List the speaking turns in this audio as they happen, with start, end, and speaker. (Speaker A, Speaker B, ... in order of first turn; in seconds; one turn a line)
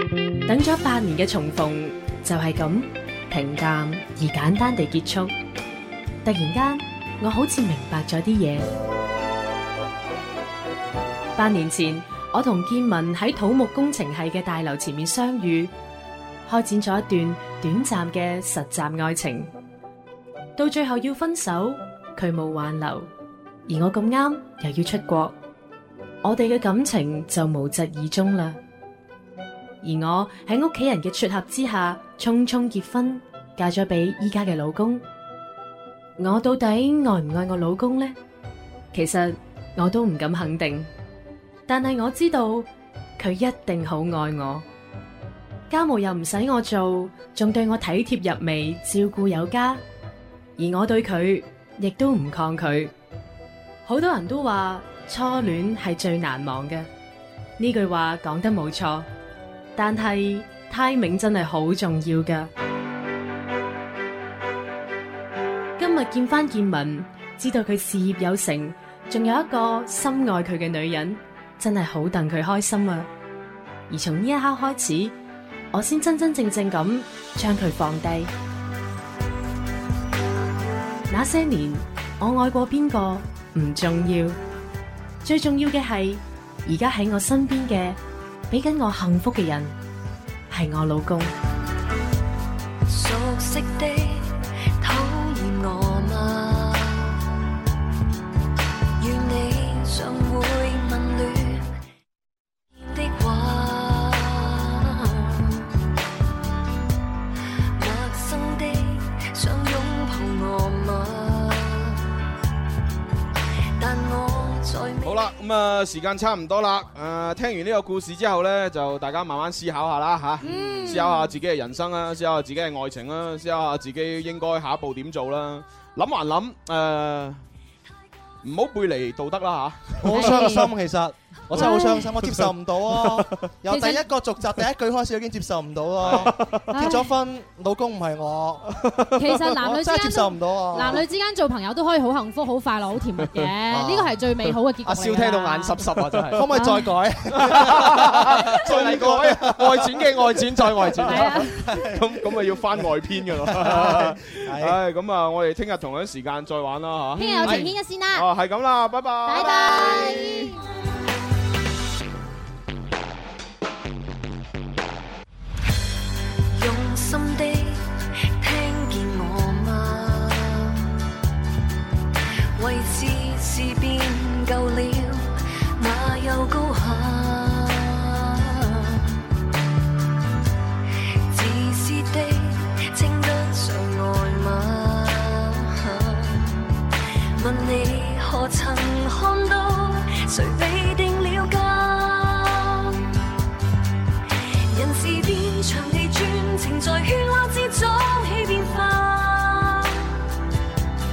Speaker A: 0.5-5.3
Speaker A: 6.2-8.7
Speaker A: 11.3-15.7
Speaker A: 16.4-19.5
Speaker A: 20.6-23.1
Speaker A: 23.7-25.4
Speaker A: 26.2-28.6
Speaker A: 29.8-35.0
Speaker A: 36.2-38.1
Speaker A: 38.9-40.9
Speaker A: 41.7-44.6
Speaker A: 45.7-49.8
Speaker A: 50.6-52.9
Speaker A: 53.8-56.9
Speaker A: 57.6-59.1
Speaker A: 59.8-62.5
Speaker A: 65.8-73.1
Speaker A: 73.9-75.1
Speaker A: 75.7-78.3
Speaker A: 81.1-84.4
Speaker A: 85.2-88.0
Speaker A: 88.5-89.8
Speaker A: 90.5-91.3
Speaker B: 92.9-97.2
Speaker B: 99.0-101.7
Speaker B: 102.8-105.8
Speaker B: 107.8-112.0
Speaker B: 113.8-115.3
Speaker C: 115.0-127.4
Speaker D: 120.4-121.3
Speaker C: 128.4-130.4
Speaker E: 130.0-138.8
Speaker D: 130.1-130.7
Speaker D: 131.5-132.1
Speaker D: 133.7-134.0
Speaker C: 136.0-136.6
Speaker D: 136.7-137.1
Speaker D: 139.2-145.9
Speaker E: 139.3-141.0
Speaker E: 143.7-144.1
Speaker E: 145.0-154.8
Speaker C: 145.8-146.4
Speaker D: 146.5-147.0
Speaker C: 147.3-160.5
Speaker D: 151.1-151.6
Speaker D: 157.2-158.3
Speaker E: 157.4-157.7
Speaker D: 159.2-160.6
Speaker B: 166.5-170.9
Speaker B: 172.6-179.2
Speaker B: 181.3-193.1
Speaker B: 194.7-200.2